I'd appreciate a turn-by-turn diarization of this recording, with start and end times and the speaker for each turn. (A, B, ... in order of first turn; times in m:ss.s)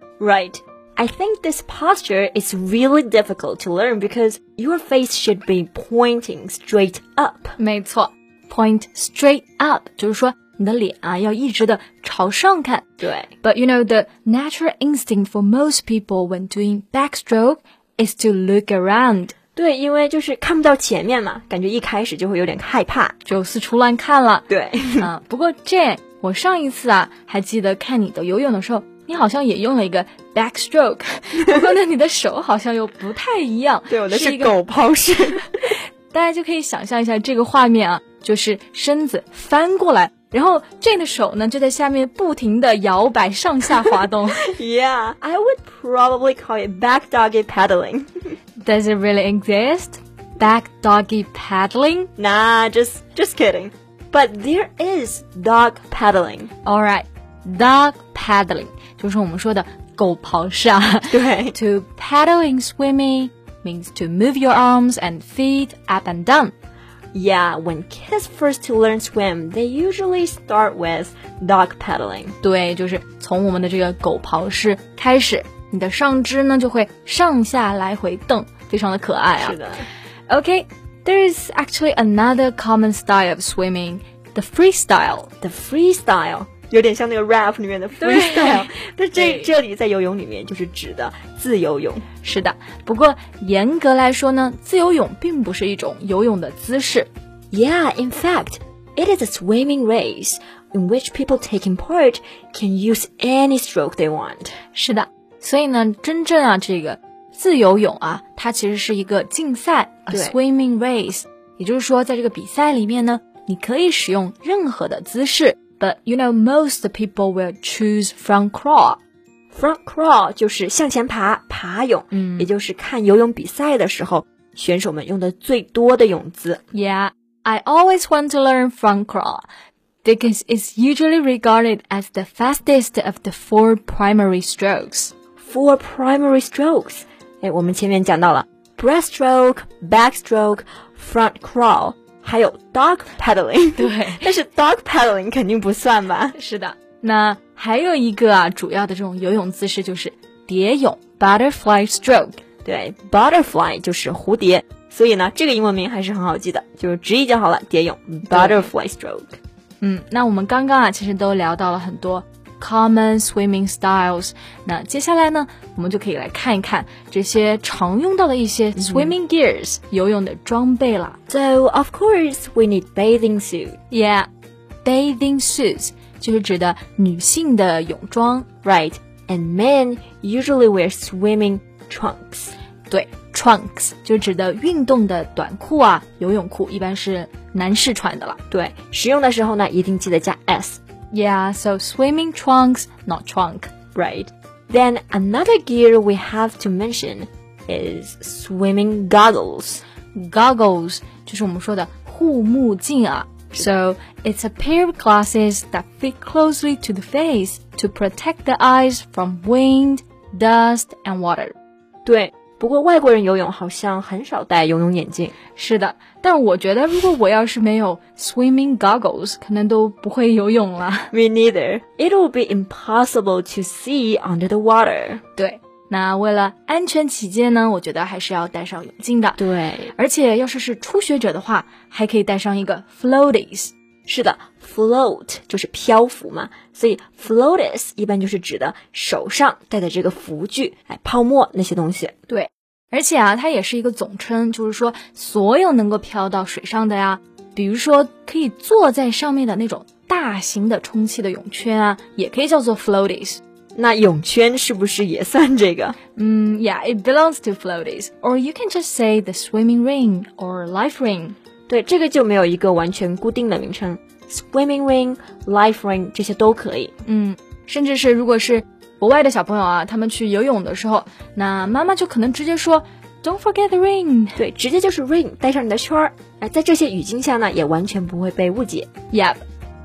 0:00.2-0:07.5 A
0:07.6-0:12.8 B
0:13.0-0:13.3 A
0:13.4-0:19.3 B
0:19.6-0:23.2 A
0:23.2-0:34.6 B
0:24.5-0:25.1 A
0:33.9-0:35.8 A
0:36.1-0:44.4 B
0:44.0-0:48.3 A
0:48.6-0:52.1 B
0:52.2-0:56.5 A
0:56.6-1:06.5 B
1:01.1-1:01.6 A
1:07.1-1:12.3 A
1:12.4-1:19.6 B
1:19.4-1:19.9 A
1:20.3-1:25.3 B
1:25.4-1:32.0 A
1:28.0-1:29.5 B
1:32.2-1:37.1 B
1:37.5-1:44.5 A
1:44.7-1:59.0 B
1:50.1-1:50.4 A
1:59.5-2:06.6 A
2:02.1-2:02.5 B
2:06.7-2:09.4 B
2:10.0-2:15.1 B
2:15.4-2:26.3 A
2:23.8-2:24.3 B
2:26.3-2:32.4 B
2:32.6-2:39.4 A
2:38.3-2:38.7 B
2:39.8-2:51.2 B
2:48.8-2:49.2 A
2:51.3-2:53.8 A
2:53.9-2:54.3 B
2:54.8-2:58.5 B
2:58.6-3:02.5 A
3:02.9-3:08.4 B
3:08.5-3:10.8 A
3:11.1-3:13.7 B
3:13.9-3:19.8 A
3:20.1-3:31.5 B
3:32.0-3:35.4 A
3:35.6-3:41.1 B
3:41.1-3:45.2 A
3:45.4-3:49.4 B
3:49.4-3:49.9 A
3:49.9-3:53.7 B
3:54.0-4:02.2 A
4:02.3-4:13.4 B
4:13.7-4:16.0 A
4:16.1-4:21.4 B
4:21.7-4:26.9 A
4:27.0-4:34.4 B
4:34.4-4:38.9 A
4:39.1-4:39.4 B